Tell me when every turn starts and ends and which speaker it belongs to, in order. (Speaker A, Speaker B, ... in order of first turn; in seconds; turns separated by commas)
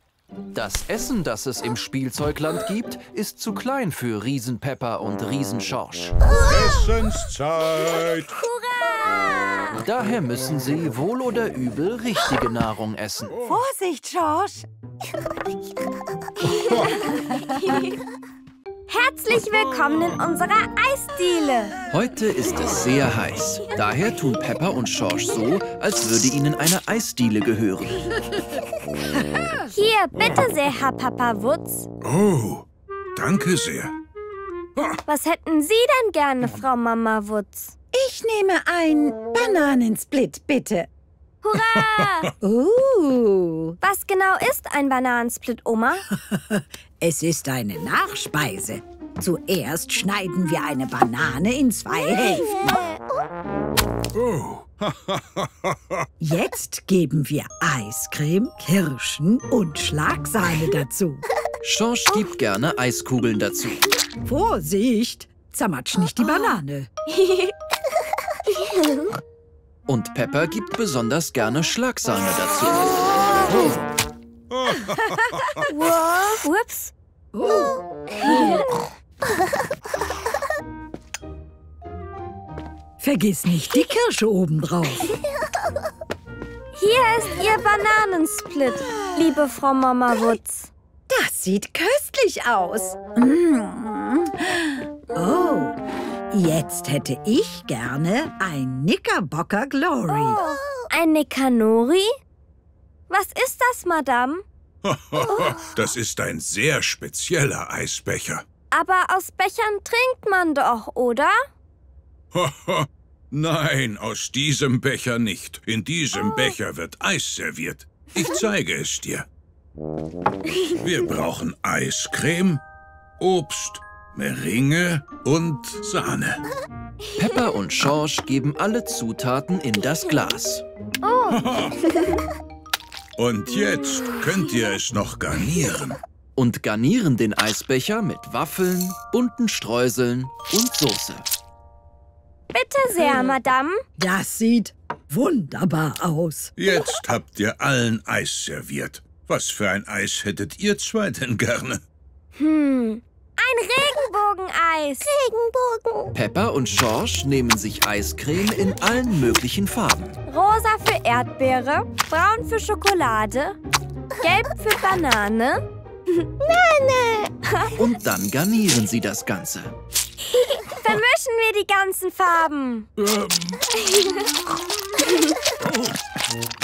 Speaker A: 0.5-6.2, Speaker B: 6.3-8.3, Speaker C: 8.3-9.8, Speaker A: 9.8-13.4, Speaker D: 13.4-14.7, Speaker B: 16.5-17.1, Speaker C: 17.5-18.0, Speaker C: 18.9-21.8, Speaker A: 21.9-28.1, Speaker D: 29.0-29.7, Speaker C: 29.7-31.9, Speaker B: 32.0-34.0, Speaker C: 35.1-37.7, Speaker D: 37.9-40.9, Speaker C: 41.4-42.3, Speaker D: 42.4-43.8, Speaker C: 43.8-46.1, Speaker D: 46.1-52.8, Speaker B: 54.1-56.1, Speaker D: 56.2-61.2, Speaker A: 61.6-63.9, Speaker D: 64.2-66.9, Speaker C: 67.2-67.5, Speaker A: 69.9-73.4, Speaker B: 73.5-73.8, Speaker B: 74.5-75.7, Speaker C: 75.6-76.9, Speaker D: 77.3-78.3, Speaker C: 78.2-78.7, Speaker D: 83.0-85.2, Speaker C: 86.8-90.7, Speaker D: 91.1-95.8, Speaker D: 96.3-100.4, Speaker C: 100.1-102.1, Speaker C: 103.1-104.5, Speaker B: 104.8-108.5, Speaker C: 108.7-111.4, Speaker B: 112.3-119.3, Speaker B: 120.7-122.6, Speaker B: 123.2-126.4, Speaker A: 127.2-130.6, Speaker C: 131.0-131.4, Speaker B: 131.3-131.9, Speaker B: 133.2-136.0, Speaker A: 136.4-141.3, Speaker C: 142.5-143.8, Speaker D: 144.0-146.5, Speaker B: 146.6-151.8, Speaker C: 152.4-155.1, Speaker E: 155.0-156.1, Speaker A: 156.1-160.2, Speaker C: 160.3-163.6, Speaker C: 164.2-165.6, Speaker E: 166.4-167.4, Speaker A: 167.7-169.7, Speaker C: 170.4-172.9, Speaker B: 173.0-173.8, Speaker C: 173.8-174.2, Speaker B: 175.6-176.0